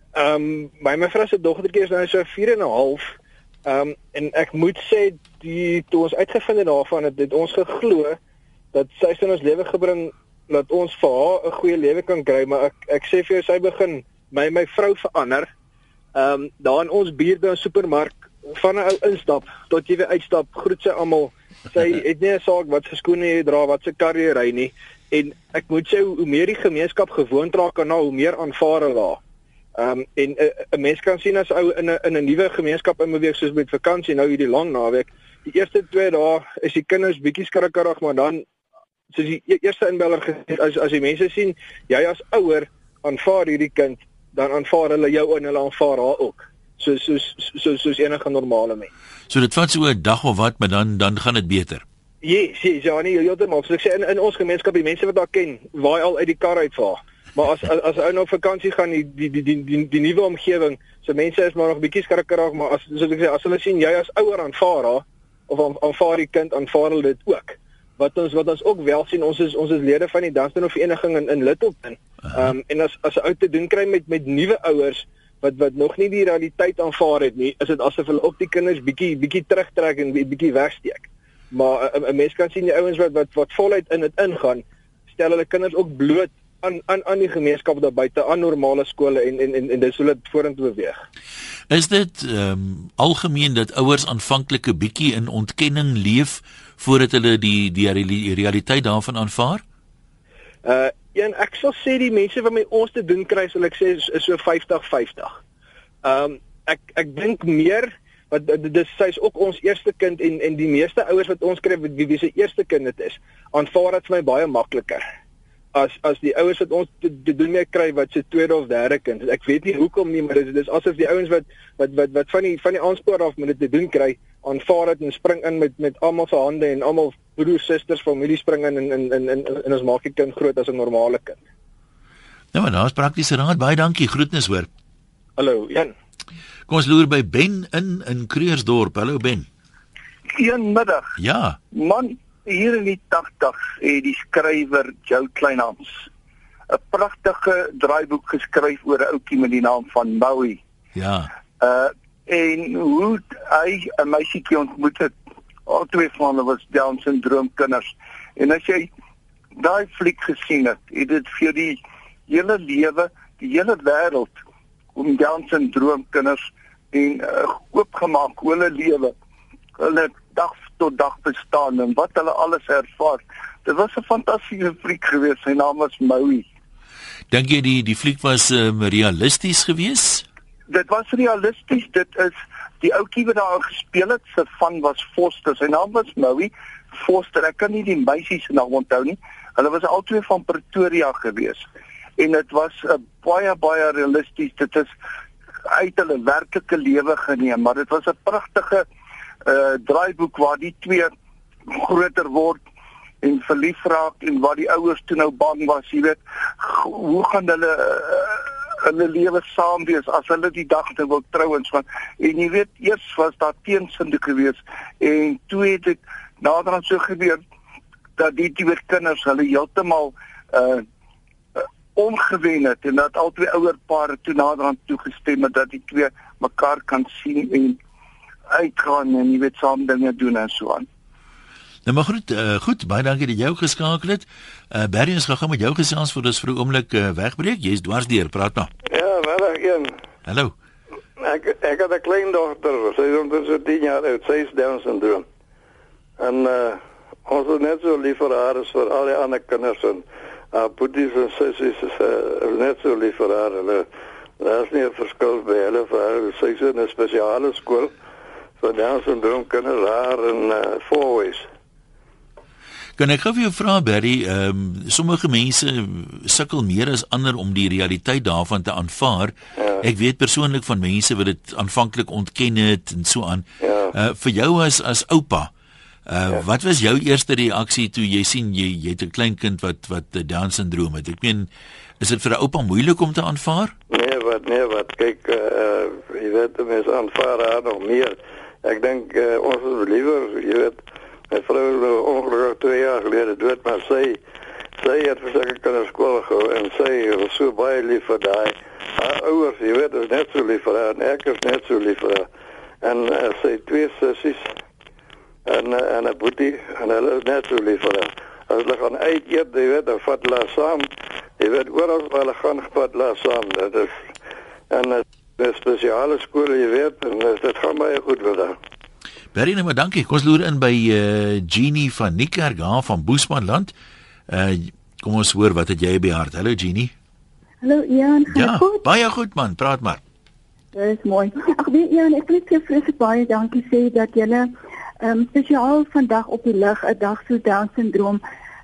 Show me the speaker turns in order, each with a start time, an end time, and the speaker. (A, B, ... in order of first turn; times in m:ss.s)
0:00.2-0:03.1 A
0:03.7-0:08.2 A
0:08.7-0:15.5 A
0:16.2-0:29.2 A
0:29.8-0:38.4 A
0:39.1-0:48.9 A
0:49.3-0:51.8 B
0:52.2-1:31.0 A
1:31.7-1:39.6 B
1:40.6-1:45.3 A
1:46.0-1:55.0 A
1:55.7-2:11.4 A
2:12.5-2:14.7 B
2:15.4-2:15.9 A
2:16.7-2:19.5 B
2:20.3-2:21.1 C
2:21.2-2:21.6 B
2:21.7-2:26.1 C
2:26.7-2:30.6 C
2:31.0-2:31.3 B
2:31.6-2:35.1 C
2:35.7-2:38.9 C
2:39.6-2:44.4 C
2:45.0-2:49.1 C
2:49.8-2:56.5 C
2:57.3-3:00.2 B
3:00.7-3:11.7 C
3:12.2-3:14.9 C
3:15.7-3:18.8 C
3:19.4-3:21.1 C
3:21.7-3:22.6 C
3:23.2-3:37.4 C
3:38.2-3:40.8 C
3:41.6-3:47.8 C
3:48.5-3:50.9 C
3:51.9-3:58.7 B
3:58.9-4:00.0 D
4:00.3-4:00.5 B
4:01.2-4:05.2 D
4:06.2-4:13.9 D
4:14.4-4:17.9 D
4:18.6-4:21.5 D
4:23.0-4:35.5 B
4:33.6-4:33.9 D
4:36.1-4:41.5 B
4:42.0-4:43.7 B
4:43.9-4:50.8 D
4:51.3-4:54.2 D
4:54.8-5:02.3 D
5:02.8-5:04.5 D
5:05.5-5:14.0 D
5:14.7-5:18.6 D
5:19.3-5:23.7 B
5:24.3-5:26.9 B
5:27.6-5:28.8 E
5:28.3-5:30.0 B
5:30.7-5:34.5 E
5:35.0-5:38.2 E